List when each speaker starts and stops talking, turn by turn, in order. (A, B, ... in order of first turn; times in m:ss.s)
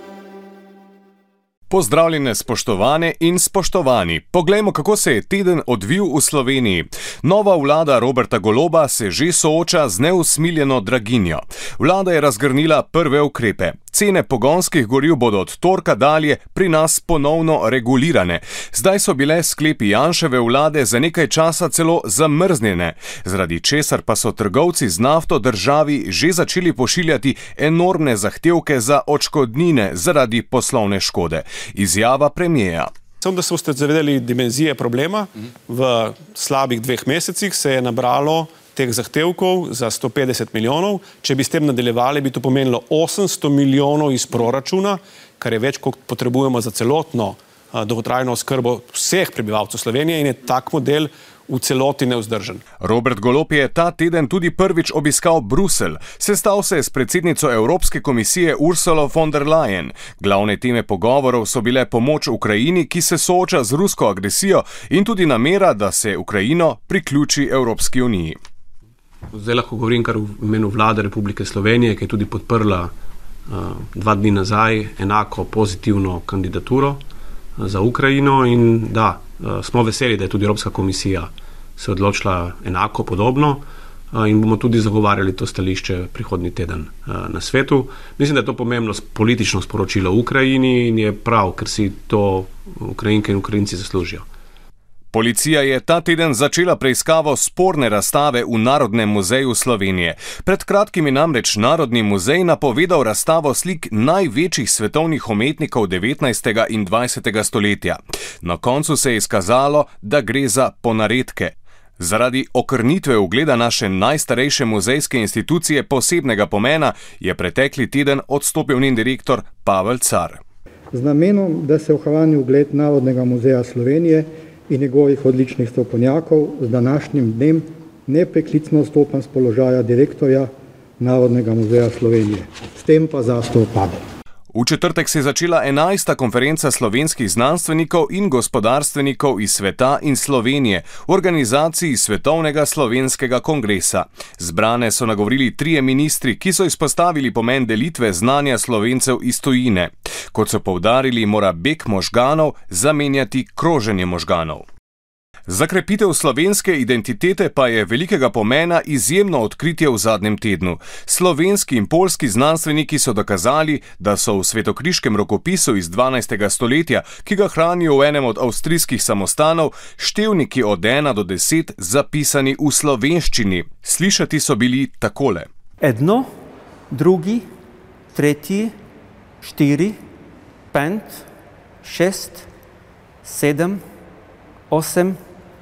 0:01.7-0:32.9 A
0:33.2-0:52.6 B
0:52.8-1:08.4 A
1:09.3-1:12.9 C
1:13.5-1:17.0 C
1:17.6-1:34.2 C
1:35.1-2:00.4 A
2:00.9-2:14.0 D
2:14.5-2:34.6 A
2:35.5-2:55.5 A
2:55.8-2:56.3 E
2:56.9-2:57.4 E
2:58.1-2:58.7 E
2:59.4-3:00.0 E
3:00.7-3:01.2 E
3:01.8-3:02.5 E
3:03.2-3:03.8 E
3:04.7-3:05.2 E